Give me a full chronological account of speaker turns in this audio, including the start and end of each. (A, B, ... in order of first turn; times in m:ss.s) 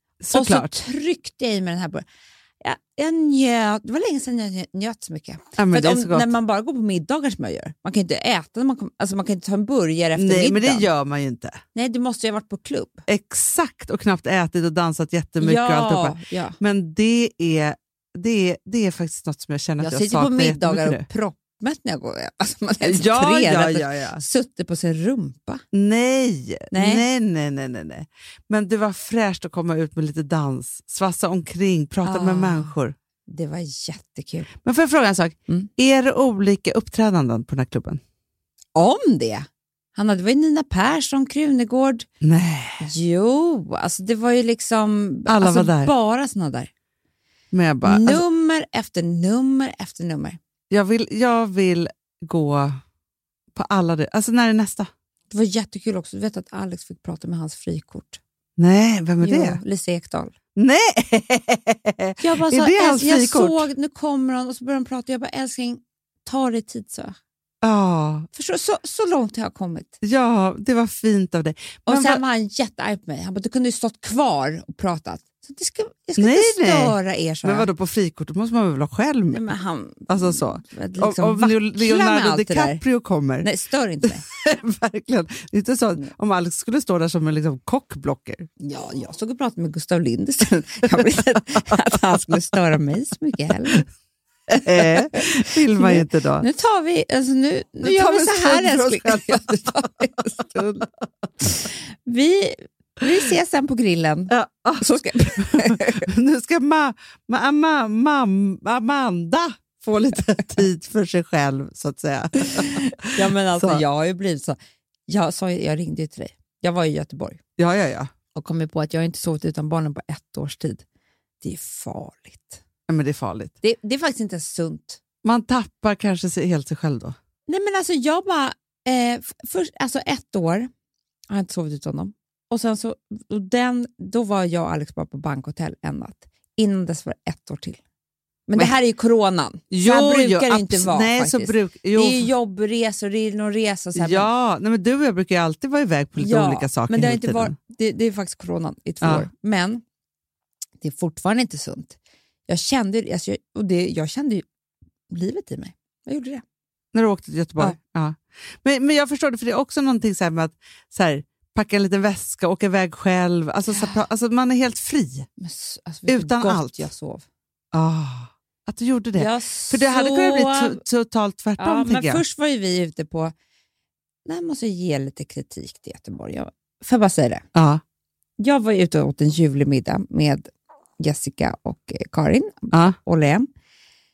0:00.2-0:00.7 A
0:00.3-0:02.0 B
0:02.6-0:10.8 B
0:05.6-0:06.3 A
0:10.1-0:11.6 A
0:11.7-0:13.0 B
0:13.1-0:21.0 A
0:15.4-0:16.6 B
0:19.8-0:25.6 B
0:22.8-0:24.2 A
0:25.7-0:33.0 A
0:26.7-0:27.0 B
0:32.0-0:32.7 B
0:33.3-0:34.5 B
0:34.6-0:38.0 A
0:38.7-0:42.1 B
0:42.2-0:42.8 A
0:42.8-0:46.7 B
0:45.3-0:45.9 A
0:47.5-0:48.2 A
0:47.8-0:50.4 B
0:50.7-0:52.8 A
0:53.5-0:54.9 A
0:55.3-0:58.2 B
0:58.6-0:59.6 A
0:59.2-1:00.3 B
1:00.6-1:03.7 A
1:02.2-1:07.2 B
1:07.6-1:08.3 A
1:08.3-1:09.9 B
1:10.0-1:12.2 A
1:11.9-1:17.7 B
1:16.2-1:19.4 A
1:19.3-1:22.8 B
1:20.1-1:23.5 A
1:23.4-1:24.2 B
1:24.2-1:28.5 A
1:28.6-1:33.9 B
1:31.6-1:32.0 A
1:34.5-1:36.4 A
1:34.6-1:40.8 B
1:37.8-1:40.8 A
1:41.4-1:46.1 B
1:44.3-1:53.8 A
1:52.4-1:57.4 B
1:57.6-1:58.1 A
1:58.3-2:00.8 B
2:01.4-2:02.6 B
2:02.9-2:03.6 A
2:03.6-2:05.0 B
2:05.2-2:07.2 A
2:07.5-2:10.7 B
2:11.3-2:17.8 B
2:18.5-2:24.3 B
2:19.7-2:22.3 A
2:23.9-2:27.6 A
2:26.2-2:29.8 B
2:29.0-2:29.3 A
2:30.8-2:32.0 B
2:32.5-2:34.4 B
2:35.1-2:36.4 B
2:36.9-2:45.3 A
2:43.7-2:44.0 B
2:45.4-2:47.2 B
2:46.1-2:46.9 A
2:47.7-2:52.2 A
2:49.1-2:50.8 B
2:51.6-2:53.3 B
2:54.2-2:57.4 B
2:57.5-2:57.8 A
2:58.4-3:00.5 B
3:01.0-3:03.5 B